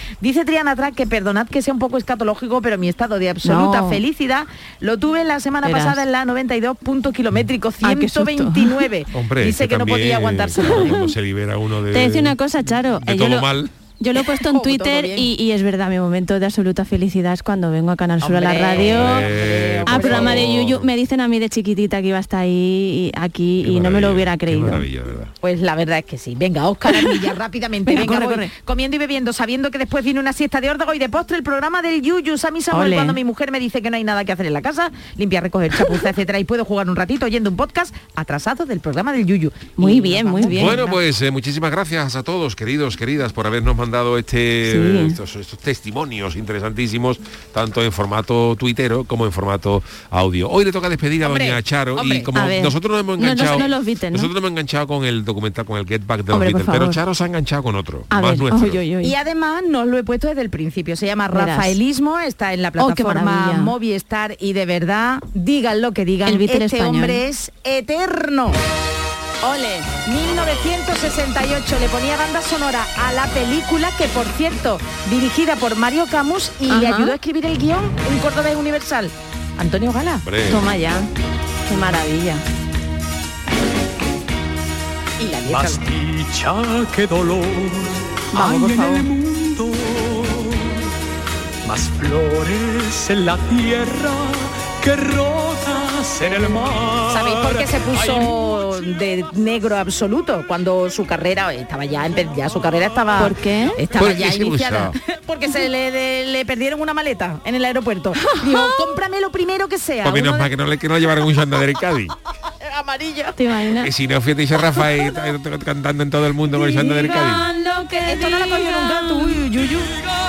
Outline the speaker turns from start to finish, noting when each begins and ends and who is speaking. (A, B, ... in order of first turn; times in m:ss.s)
0:00.2-0:11.0 A
0:03.4-0:04.0 B
0:05.6-0:06.0 B
0:07.8-0:08.8 B
0:09.1-0:12.4 C
0:10.6-0:11.1 B
0:11.9-0:19.3 B
0:13.0-0:13.7 C
0:14.4-0:15.3 A
0:18.2-0:20.5 A
0:18.8-0:20.9 C
0:19.8-0:24.8 B
0:23.6-0:25.3 C
0:25.4-0:41.0 A
0:27.8-0:28.5 B
0:32.7-0:33.2 B
0:39.8-0:40.8 B
0:40.5-0:58.8 C
0:44.7-0:45.2 B
0:51.2-0:52.3 A
0:52.4-0:54.3 B
0:53.3-0:53.6 A
0:56.3-0:57.0 B
0:58.1-0:59.1 B
0:59.0-1:08.6 A
1:01.3-1:01.8 B
1:02.8-1:03.7 B
1:06.2-1:07.2 B
1:09.4-1:09.8 B
1:09.7-1:20.2 A
1:16.7-1:17.2 B
1:20.2-1:20.7 C
1:20.5-1:21.1 B
1:21.7-1:22.4 B
1:25.2-1:25.8 A
1:25.5-1:30.8 D
1:28.3-1:29.1 B
1:31.6-1:38.3 D
1:36.2-1:50.5 A
1:43.2-1:43.8 B
1:44.0-1:45.0 C
1:48.2-1:48.9 B
1:50.0-1:52.2 C
1:52.6-1:53.4 A
1:53.4-1:53.9 B
1:53.8-1:57.5 C
1:56.5-1:59.4 B
1:58.0-2:00.0 A